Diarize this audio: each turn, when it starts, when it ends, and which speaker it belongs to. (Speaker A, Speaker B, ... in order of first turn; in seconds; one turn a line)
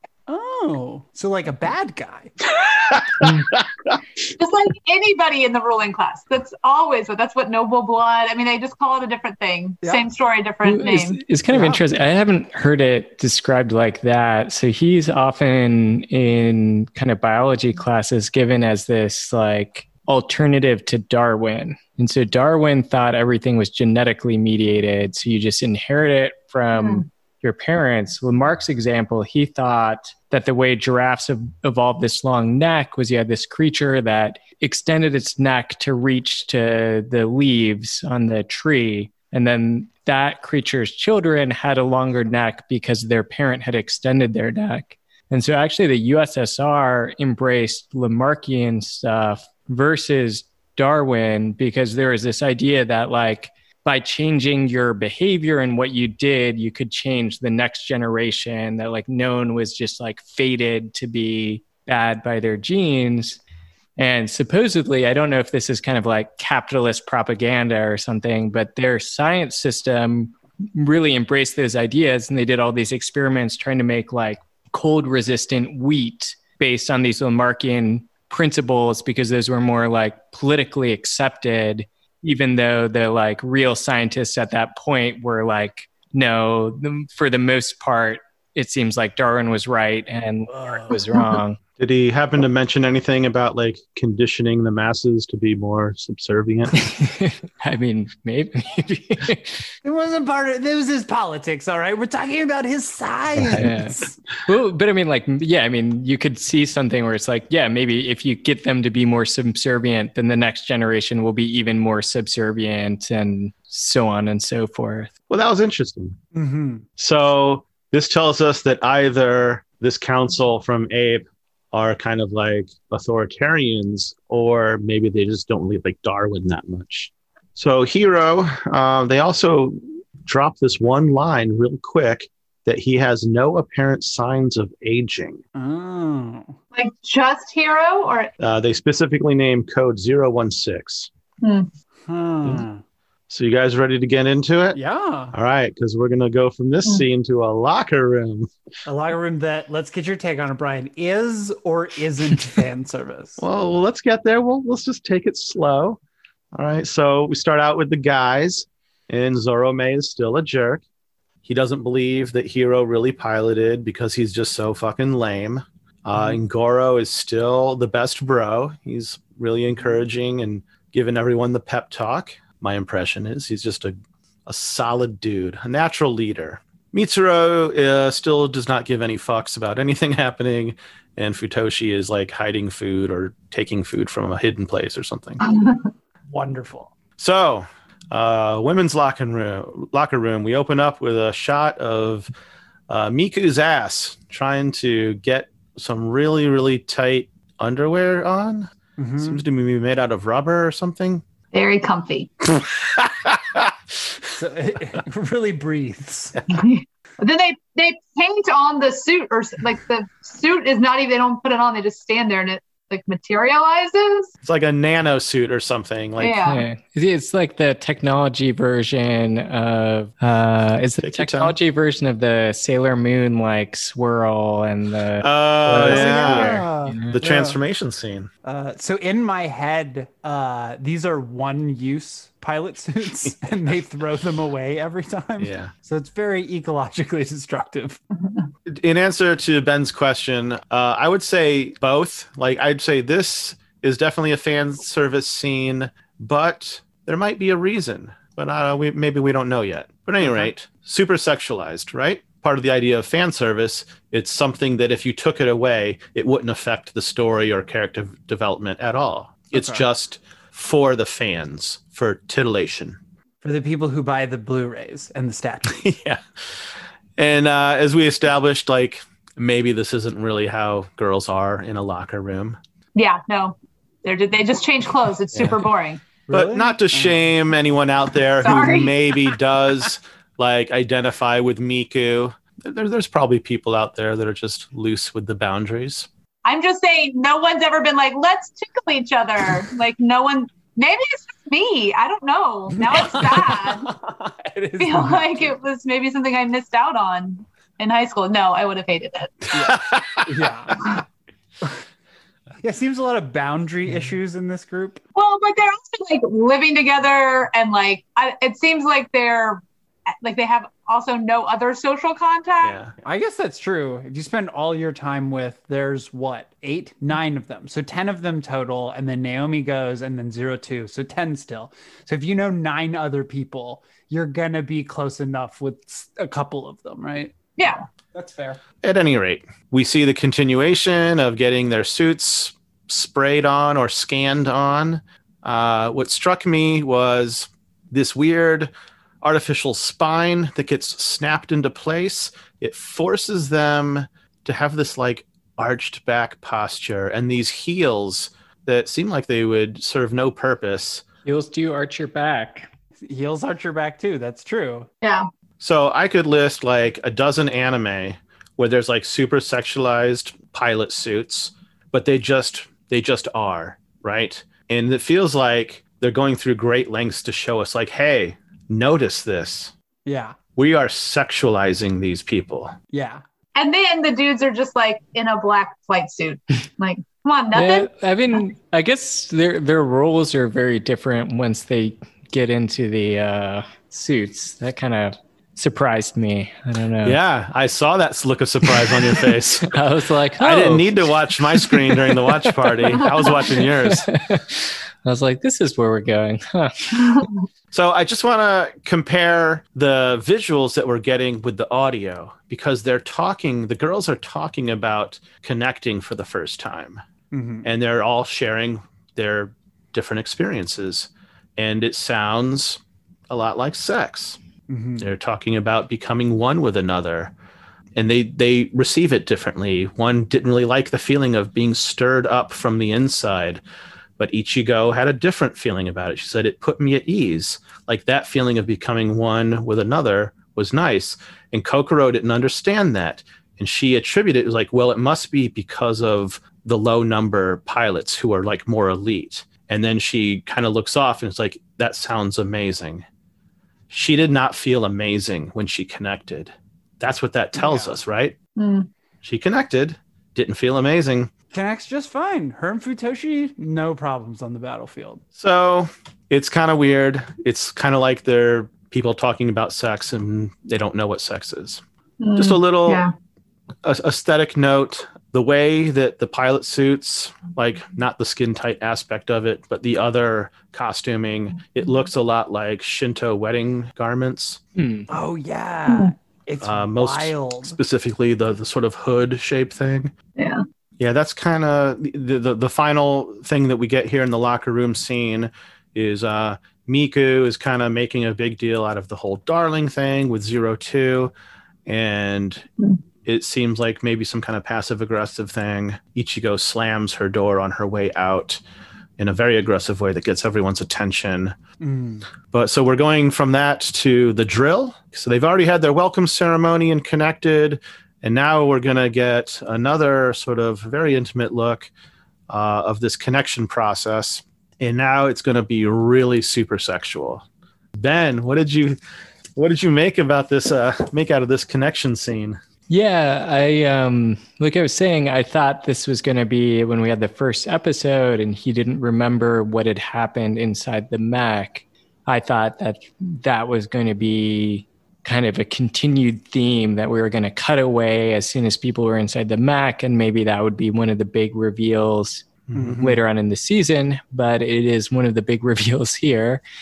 Speaker A: 0.3-2.3
Speaker B: 2.6-4.0
Speaker C: 3.2-3.5
Speaker D: 4.4-11.2
Speaker C: 10.6-63.4
Speaker A: 11.5-11.8
Speaker D: 26.8-27.0
Speaker C: 64.0-91.6
Speaker A: 90.5-91.0
Speaker B: 91.8-96.8
Speaker C: 96.8-99.7
Speaker A: 99.8-104.2
Speaker B: 103.4-103.7
Speaker C: 103.5-115.1
Speaker B: 115.3-116.2
Speaker A: 116.3-116.8
Speaker B: 117.0-135.4
Speaker A: 135.5-136.6
Speaker D: 136.7-138.3
Speaker B: 138.4-141.1
Speaker D: 141.4-141.7
Speaker A: 142.1-142.8
Speaker B: 143.3-144.8
Speaker A: 144.7-145.3
Speaker B: 145.3-148.5
Speaker A: 148.8-153.4
Speaker B: 153.4-156.0
Speaker B: 156.5-160.8
Speaker B: 161.4-185.4
Speaker A: 166.2-166.4
Speaker D: 185.5-185.9
Speaker A: 186.3-186.9
Speaker B: 187.2-192.3
Speaker B: 192.9-201.2
Speaker A: 199.0-199.4
Speaker D: 201.5-202.3
Speaker B: 202.5-204.2
Speaker A: 204.3-206.3
Speaker D: 206.5-214.3
Speaker B: 214.4-216.4
Speaker D: 216.2-216.6
Speaker C: 216.4-227.2
Speaker B: 221.0-221.6
Speaker B: 225.2-228.3
Speaker A: 225.8-227.6
Speaker A: 228.4-238.0
Speaker B: 235.4-235.7
Speaker D: 238.2-238.5
Speaker B: 238.7-263.0
Speaker A: 250.2-250.5
Speaker A: 259.5-259.9
Speaker A: 263.4-265.8
Speaker B: 265.7-272.6
Speaker D: 272.9-276.0
Speaker B: 275.3-275.6
Speaker A: 276.3-277.3
Speaker B: 276.3-286.1
Speaker D: 278.4-278.9
Speaker A: 278.5-278.8
Speaker D: 286.4-293.8
Speaker A: 292.8-295.6
Speaker D: 294.8-299.5
Speaker A: 299.5-300.8
Speaker B: 299.6-300.9
Speaker A: 302.6-305.0
Speaker D: 305.1-309.6
Speaker D: 310.2-312.8
Speaker B: 312.6-312.9
Speaker A: 313.0-327.3
Speaker D: 327.6-327.8
Speaker A: 328.1-328.6
Speaker B: 328.8-338.7
Speaker B: 339.2-351.0
Speaker C: 351.2-352.7
Speaker A: 353.0-354.9
Speaker D: 355.0-355.3
Speaker B: 355.6-369.7
Speaker A: 370.1-370.4
Speaker B: 370.6-372.8
Speaker A: 372.9-373.2
Speaker D: 373.5-377.9
Speaker C: 377.5-387.2
Speaker B: 387.0-389.7
Speaker C: 388.6-397.3
Speaker B: 390.4-394.1
Speaker B: 397.7-407.0
Speaker A: 407.3-407.7
Speaker B: 407.6-414.4
Speaker A: 414.7-415.1
Speaker B: 415.0-417.3
Speaker B: 417.9-423.6
Speaker B: 424.2-443.0
Speaker B: 443.9-448.4
Speaker A: 447.6-448.0
Speaker D: 448.6-448.9
Speaker B: 449.2-451.3
Speaker A: 451.5-455.2
Speaker B: 455.4-461.8
Speaker D: 462.2-463.1
Speaker B: 462.4-463.0
Speaker B: 463.8-474.6
Speaker C: 474.8-475.1
Speaker A: 475.1-477.8
Speaker D: 475.9-476.1
Speaker B: 476.6-480.1
Speaker D: 480.4-480.6
Speaker B: 481.0-491.3
Speaker B: 491.9-492.7
Speaker B: 493.2-498.6
Speaker B: 499.2-501.6
Speaker A: 501.8-502.2
Speaker B: 502.5-511.9
Speaker B: 512.5-517.4
Speaker B: 518.0-519.0
Speaker B: 519.6-522.6
Speaker C: 522.9-542.5
Speaker B: 542.7-543.1
Speaker A: 542.7-543.2
Speaker C: 543.0-546.6